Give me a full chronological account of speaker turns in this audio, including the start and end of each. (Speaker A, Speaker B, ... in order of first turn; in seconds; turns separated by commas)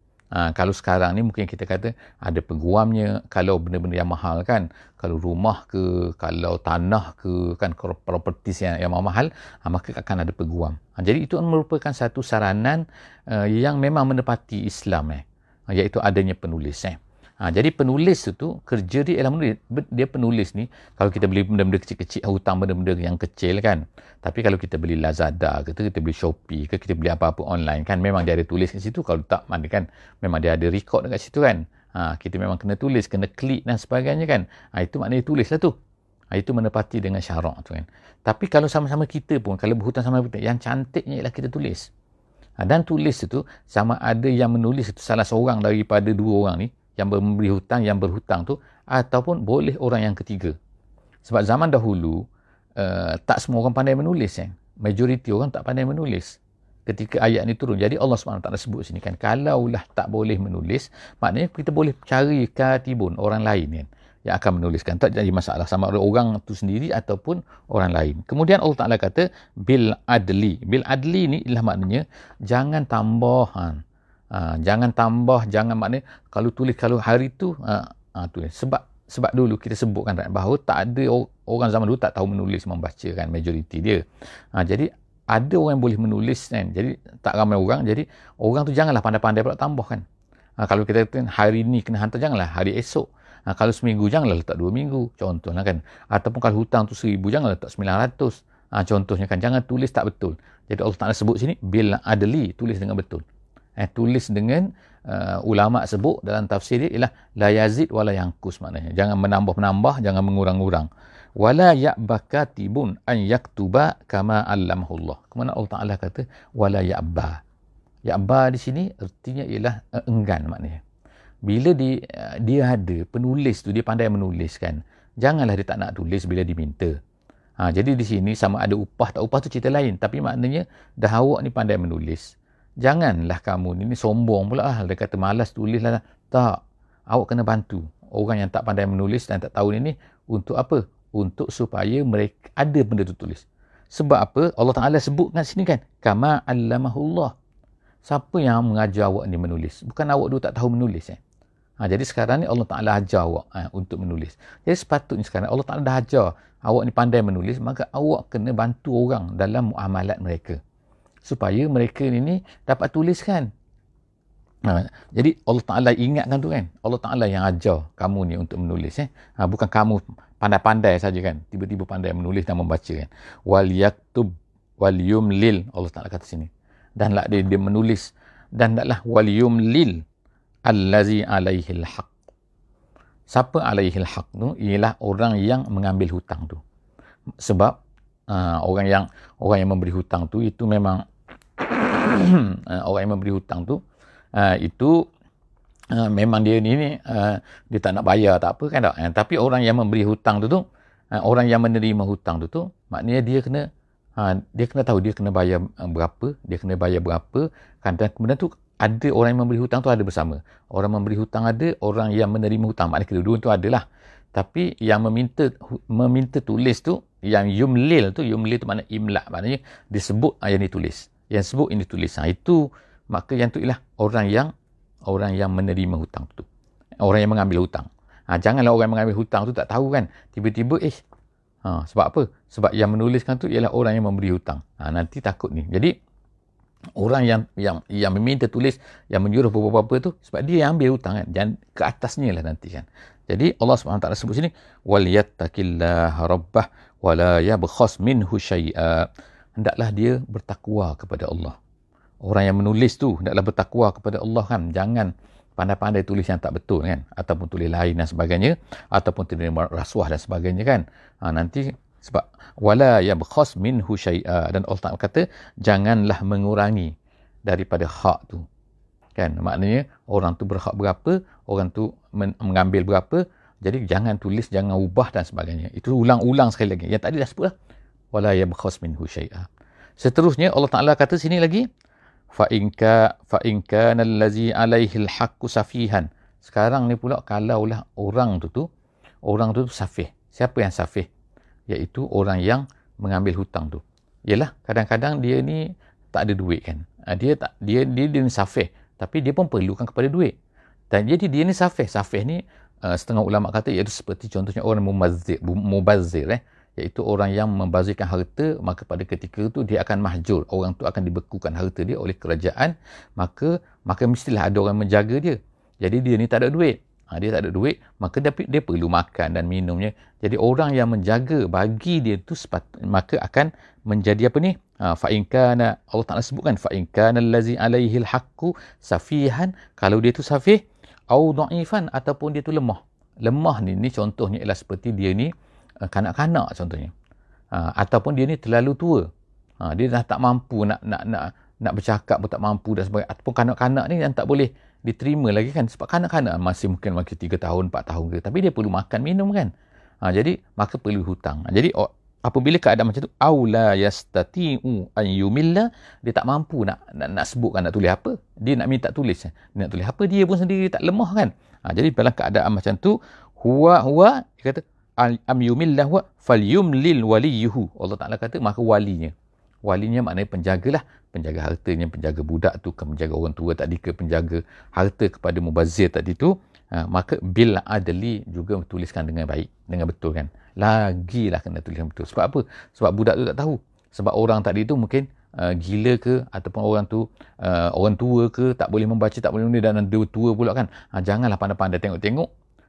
Speaker A: 0.3-35.7, Speaker A: 36.3-41.9, Speaker A: 42.6-50.5, Speaker A: 51.2-52.2, Speaker A: 52.8-73.8, Speaker A: 74.3-84.0, Speaker A: 84.5-90.0, Speaker A: 90.6-103.2, Speaker A: 103.8-117.4, Speaker A: 118.1-120.8, Speaker A: 121.5-127.0, Speaker A: 127.6-147.3, Speaker A: 148.0-151.2, Speaker A: 151.8-160.6, Speaker A: 161.2-163.5, Speaker A: 164.6-180.0, Speaker A: 180.7-182.1, Speaker A: 183.3-186.6, Speaker A: 187.4-187.8, Speaker A: 188.3-191.0, Speaker A: 191.6-193.8, Speaker A: 194.3-195.0, Speaker A: 195.9-203.7, Speaker A: 204.2-224.5, Speaker A: 225.1-226.5, Speaker A: 227.0-231.0, Speaker A: 231.6-235.9, Speaker A: 237.0-251.6, Speaker A: 252.2-266.9, Speaker A: 267.5-268.5, Speaker A: 269.1-277.5, Speaker A: 278.1-279.5, Speaker A: 280.0-281.6, Speaker A: 282.3-288.7, Speaker A: 289.2-291.1, Speaker A: 291.7-300.3, Speaker A: 300.9-335.3, Speaker A: 335.9-336.9, Speaker A: 337.5-339.1, Speaker A: 339.6-349.5, Speaker A: 350.0-369.1, Speaker A: 369.6-392.3